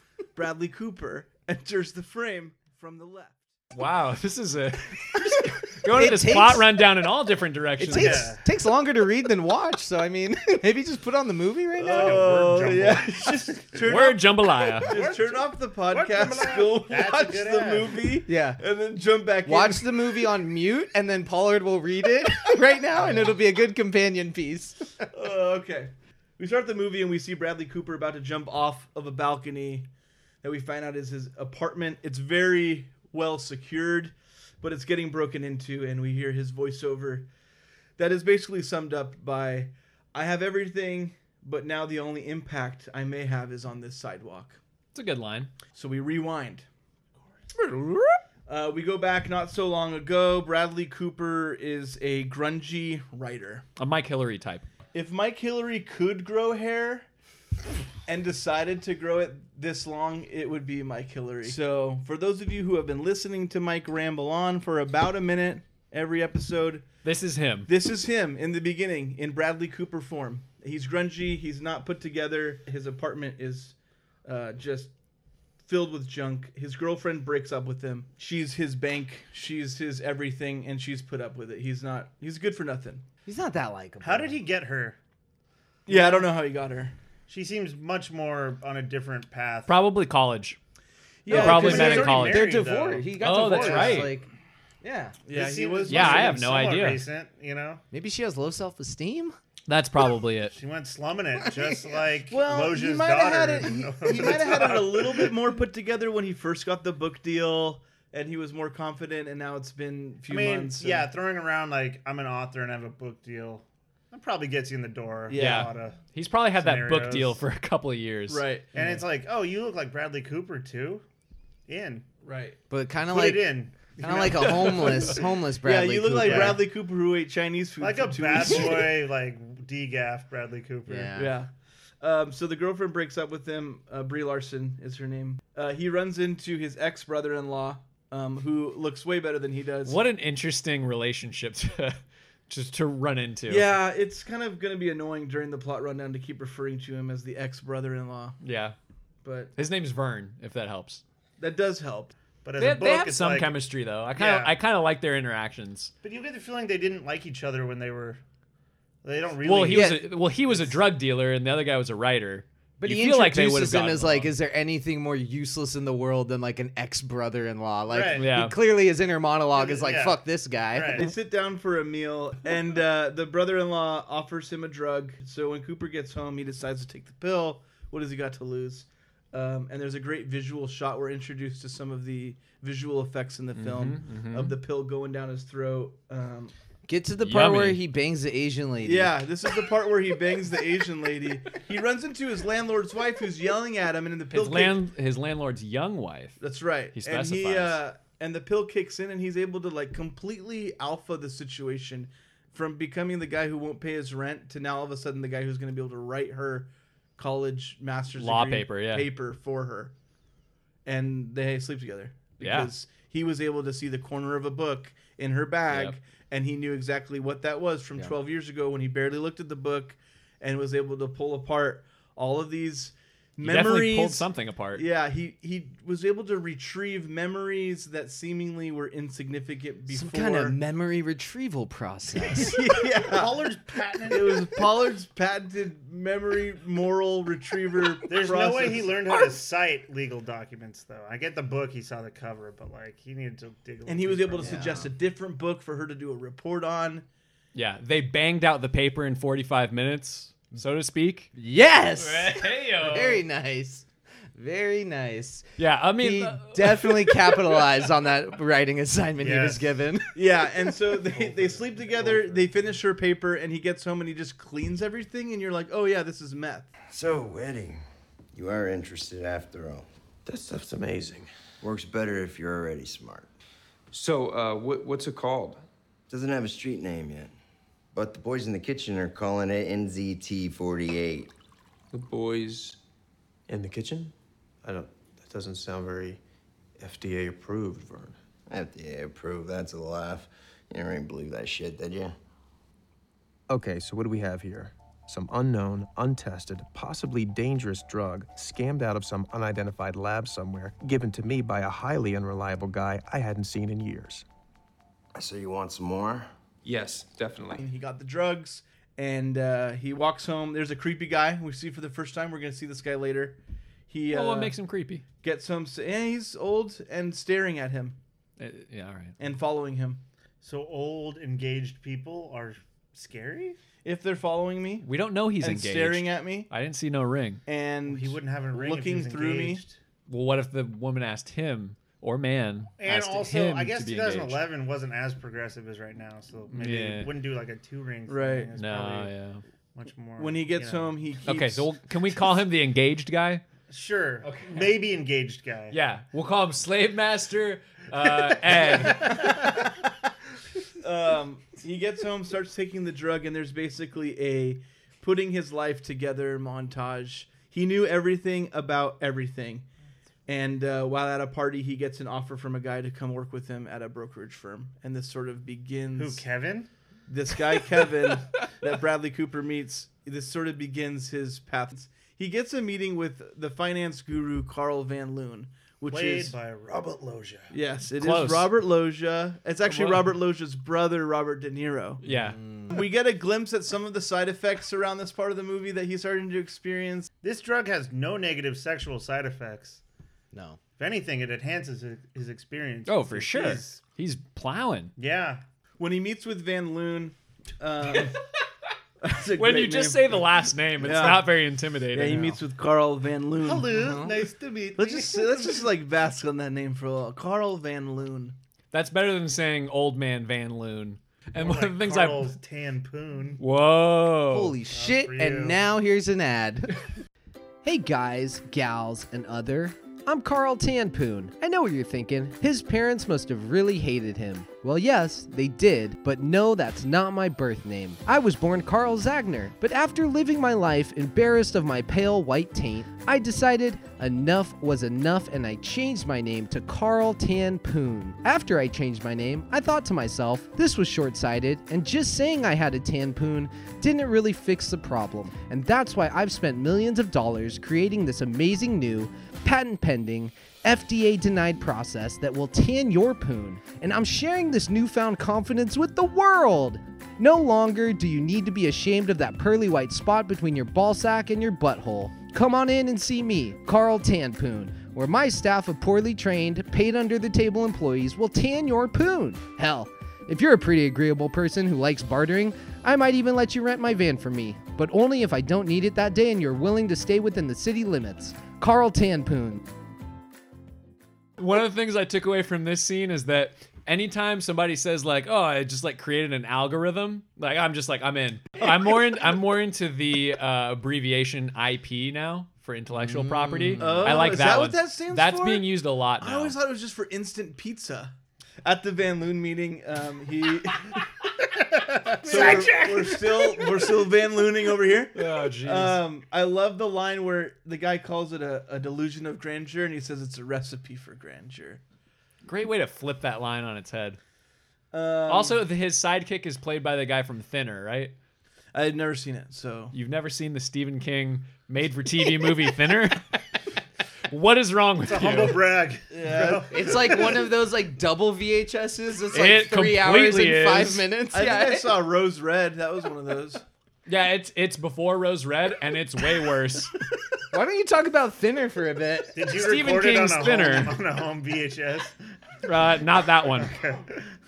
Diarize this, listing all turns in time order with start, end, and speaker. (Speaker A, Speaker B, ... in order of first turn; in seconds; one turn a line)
Speaker A: 0.3-3.4
Speaker B: 3.7-8.3
Speaker C: 5.9-6.8
Speaker C: 7.8-12.2
Speaker D: 7.9-8.4
Speaker A: 11.8-20.0
Speaker D: 11.8-13.8
Speaker B: 13.8-14.9
Speaker D: 14.8-18.0
Speaker C: 18.3-18.6
Speaker C: 19.5-24.8
Speaker A: 23.0-23.3
Speaker A: 25.1-29.9
Speaker A: 30.4-37.3
Speaker A: 38.0-44.6
Speaker B: 44.9-45.5
Speaker A: 45.8-46.7
Speaker A: 47.6-53.6
Speaker B: 53.8-54.7
Speaker A: 54.9-57.1
Speaker A: 58.1-66.9
Speaker B: 67.0-67.7
Speaker A: 67.7-74.9
Speaker A: 75.6-83.0
Speaker C: 83.3-84.4
Speaker D: 84.0-85.0
Speaker A: 85.9-86.9
Speaker D: 87.3-89.7
Speaker B: 89.7-90.6
Speaker A: 91.3-92.2
Speaker B: 91.3-92.5
Speaker C: 91.3-94.3
Speaker D: 91.3-94.1
Speaker B: 93.2-94.1
Speaker C: 94.8-95.2
Speaker A: 95.3-96.5
Speaker D: 95.3-97.8
Speaker B: 95.9-97.0
Speaker C: 97.9-99.4
Speaker B: 99.7-100.5
Speaker D: 100.5-105.4
Speaker A: 102.3-111.1
Speaker D: 110.3-116.0
Speaker A: 115.3-115.7
Speaker B: 115.3-118.5
Speaker D: 116.5-117.4
Speaker A: 118.3-119.0
Speaker D: 118.7-121.0
Speaker D: 121.7-122.0
Speaker A: 122.2-122.6
Speaker C: 122.7-123.5
Speaker D: 123.1-124.6
Speaker C: 124.0-126.6
Speaker A: 124.0-129.0
Speaker D: 126.2-126.6
Speaker D: 127.8-131.2
Speaker C: 130.9-131.3
Speaker A: 131.2-131.5
Speaker A: 132.0-140.0
Speaker B: 139.8-143.7
Speaker A: 143.5-148.4
Speaker B: 148.4-148.8
Speaker A: 149.2-149.5
Speaker B: 149.6-151.0
Speaker A: 151.4-152.2
Speaker D: 152.4-153.6
Speaker B: 152.6-155.9
Speaker D: 154.1-154.5
Speaker D: 156.0-158.2
Speaker D: 159.0-160.0
Speaker B: 159.4-164.3
Speaker C: 159.7-160.1
Speaker C: 162.8-171.1
Speaker D: 167.9-168.3
Speaker B: 168.2-168.6
Speaker D: 169.5-171.1
Speaker A: 170.9-186.5
Speaker B: 183.6-184.6
Speaker C: 186.9-189.2
Speaker B: 187.2-187.8
Speaker A: 188.8-194.8
Speaker B: 194.3-196.4
Speaker A: 196.4-209.9
Speaker B: 196.9-197.8
Speaker B: 208.2-209.1
Speaker A: 210.8-230.6
Speaker B: 212.4-212.7
Speaker B: 215.7-216.0
Speaker B: 223.4-224.8
Speaker C: 229.9-232.6
Speaker A: 232.3-233.5
Speaker D: 232.9-234.6
Speaker A: 234.1-239.2
Speaker D: 238.1-244.8
Speaker A: 243.9-247.1
Speaker C: 244.4-244.9
Speaker B: 247.5-251.3
Speaker C: 251.3-253.8
Speaker B: 252.0-253.2
Speaker C: 254.4-255.5
Speaker B: 255.6-257.4
Speaker C: 256.0-260.2
Speaker D: 259.2-259.6
Speaker A: 260.1-266.7
Speaker D: 261.1-262.6
Speaker E: 266.9-267.8
Speaker E: 268.4-269.9
Speaker F: 270.3-271.3
Speaker E: 271.6-273.3
Speaker F: 273.9-275.6
Speaker E: 276.1-277.3
Speaker E: 277.9-281.3
Speaker F: 281.9-282.8
Speaker F: 283.5-286.2
Speaker F: 286.8-288.2
Speaker E: 288.5-292.1
Speaker F: 293.5-304.3
Speaker E: 305.1-306.3
Speaker F: 306.6-307.6
Speaker A: 307.6-313.4
Speaker A: 313.9-314.5
Speaker B: 314.1-315.1
Speaker A: 315.2-318.0
Speaker B: 318.4-319.2
Speaker A: 319.2-320.0
Speaker D: 320.4-323.6
Speaker A: 323.8-324.9
Speaker B: 324.8-327.4
Speaker A: 325.4-326.5
Speaker A: 327.5-329.6
Speaker D: 327.9-329.8
Speaker B: 330.1-334.4
Speaker D: 332.8-339.1
Speaker B: 336.5-337.1
Speaker A: 338.1-338.5
Speaker B: 338.6-339.4
Speaker D: 339.8-341.0
Speaker A: 340.2-341.7
Speaker B: 341.2-343.4
Speaker D: 343.7-345.8
Speaker B: 344.2-344.7
Speaker B: 345.7-349.3
Speaker A: 348.8-349.7
Speaker A: 350.8-359.7
Speaker A: 360.3-366.2
Speaker D: 366.0-366.7
Speaker A: 367.1-376.4
Speaker D: 375.9-377.5
Speaker A: 377.5-382.0
Speaker B: 378.0-378.5
Speaker B: 379.6-380.1
Speaker B: 382.0-382.4
Speaker C: 382.1-382.7
Speaker A: 382.7-387.1
Speaker D: 387.2-389.8
Speaker C: 390.3-390.6
Speaker D: 390.8-393.8
Speaker B: 392.9-394.9
Speaker D: 395.0-395.4
Speaker A: 395.8-398.2
Speaker A: 399.0-401.4
Speaker B: 399.4-402.4
Speaker A: 401.9-404.1
Speaker D: 403.4-405.7
Speaker C: 403.7-404.1
Speaker A: 404.8-408.4
Speaker B: 408.7-412.3
Speaker D: 411.4-413.4
Speaker B: 413.4-414.6
Speaker C: 414.3-416.8
Speaker D: 414.7-415.6
Speaker C: 417.6-479.6
Speaker B: 481.4-496.6
Speaker C: 493.3-494.2
Speaker A: 493.8-498.1
Speaker A: 498.6-501.0
Speaker D: 501.8-503.1
Speaker A: 502.1-511.8
Speaker B: 502.3-502.9
Speaker B: 505.1-506.0
Speaker B: 512.5-514.2
Speaker A: 514.9-515.6
Speaker B: 515.3-518.1
Speaker A: 518.7-519.9
Speaker B: 519.9-523.4
Speaker B: 524.3-525.7
Speaker D: 525.0-527.4
Speaker A: 526.1-527.1
Speaker C: 526.7-531.9
Speaker B: 529.3-531.1
Speaker A: 531.3-533.6
Speaker B: 534.1-537.0
Speaker C: 537.5-539.3
Speaker D: 539.4-542.1
Speaker B: 539.5-541.0
Speaker B: 542.6-543.7
Speaker D: 543.6-544.2